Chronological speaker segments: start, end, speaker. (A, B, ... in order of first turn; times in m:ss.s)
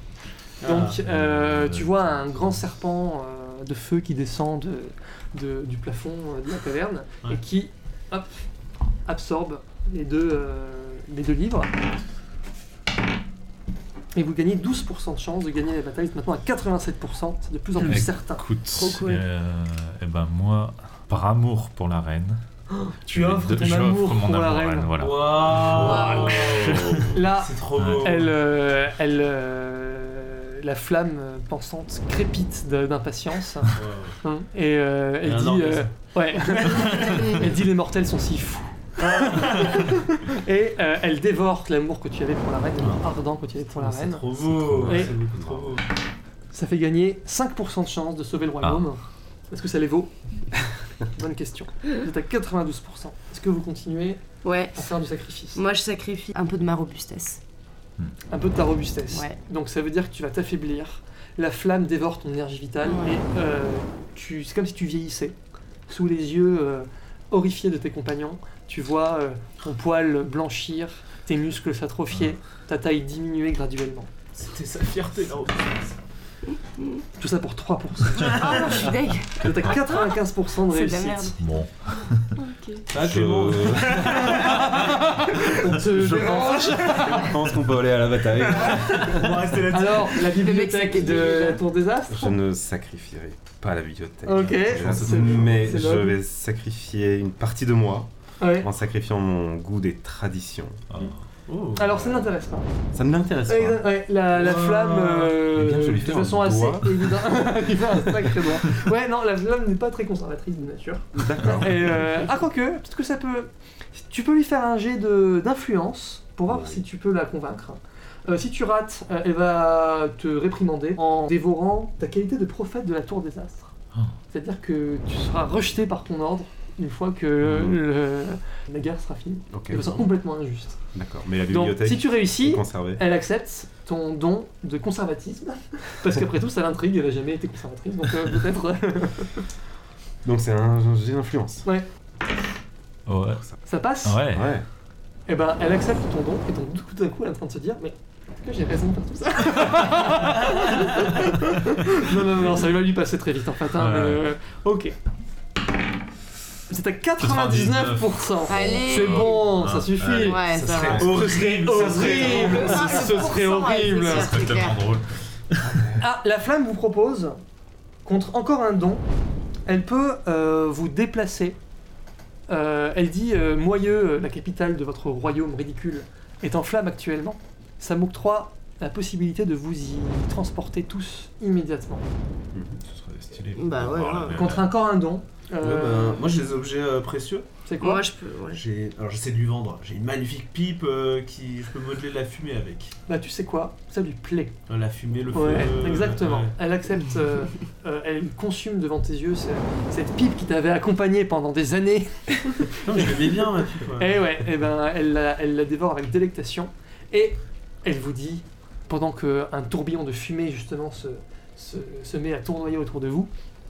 0:00.6-0:01.0 A
0:00.6-0:08.5 B
0:01.0-0:02.6 C
0:09.1-0:11.8 B
0:14.1-0:18.4 B
0:17.8-0:22.4 C
0:18.7-0:19.2 D
0:22.7-0:24.9 B
0:23.1-0:27.2 C
0:25.0-0:28.3 A
0:25.7-0:26.6 D
0:27.1-0:44.3 B
0:27.8-0:28.1 C
0:33.7-0:34.2 A
0:35.2-0:35.9 A
0:36.6-0:37.3 A
0:36.9-0:37.2 C
0:39.0-0:39.8 A
0:43.8-0:45.9 A
0:44.5-0:45.1 C
0:44.8-0:45.1 B
0:45.4-0:45.8 E
0:46.5-0:54.2 B
0:54.4-0:54.8 D
0:54.7-0:55.6 B
0:55.6-0:57.4 D
0:58.3-1:05.4 B
0:59.1-0:59.4 D
1:02.8-1:03.1 D
1:05.9-1:14.1 B
1:14.3-1:16.0 A
1:17.2-1:18.7 B
1:18.2-1:20.0 D
1:19.4-1:21.4 B
1:20.7-1:21.4 D
1:21.4-1:22.4 C
1:22.4-1:22.8 D
1:22.9-1:27.3 A
1:23.0-1:24.3 C
1:23.0-1:24.4 E
1:24.2-1:27.4 B
1:27.0-1:29.5 E
1:28.4-1:30.2 A
1:29.7-1:32.4 B
1:30.2-1:31.6 D
1:32.1-1:40.8 E
1:34.2-1:36.2 B
1:34.6-1:35.8 A
1:38.4-1:38.7 B
1:40.9-1:41.2 C
1:41.5-1:42.0 A
1:41.8-1:42.7 B
1:42.9-1:43.9 E
1:43.5-2:03.8 B
1:44.3-1:45.4 A
1:45.4-1:47.4 E
1:51.1-1:52.0 E
2:04.3-2:10.8 B
2:07.5-2:07.8 E
2:09.5-2:10.1 E
2:10.9-2:13.0 E
2:11.5-2:19.4 B
2:20.2-2:21.7 E
2:23.1-2:23.5 C
2:23.6-2:24.4 B
2:24.0-2:24.6 C
2:24.3-2:24.6 E
2:25.3-2:35.0 B
2:33.8-2:34.3 C
2:36.7-2:44.4 B
2:37.2-2:40.4 C
2:38.5-2:39.5 D
2:40.1-2:41.0 D
2:40.5-2:43.4 A
2:40.6-2:41.4 E
2:42.1-2:44.9 D
2:44.0-2:45.8 C
2:45.6-2:46.0 E
2:46.0-2:47.4 B
2:48.0-2:49.0 B
2:49.6-2:51.6 B
2:52.5-3:02.1 B
3:02.5-3:02.8 E
3:02.8-3:04.7 C
3:03.5-3:04.4 D
3:04.3-3:06.2 B
3:05.6-3:07.5 A
3:07.6-3:08.1 B
3:07.8-3:08.6 D
3:08.5-3:13.0 A
3:13.1-3:14.7 B
3:14.7-3:16.6 A
3:15.3-3:33.3 B
3:22.8-3:24.2 A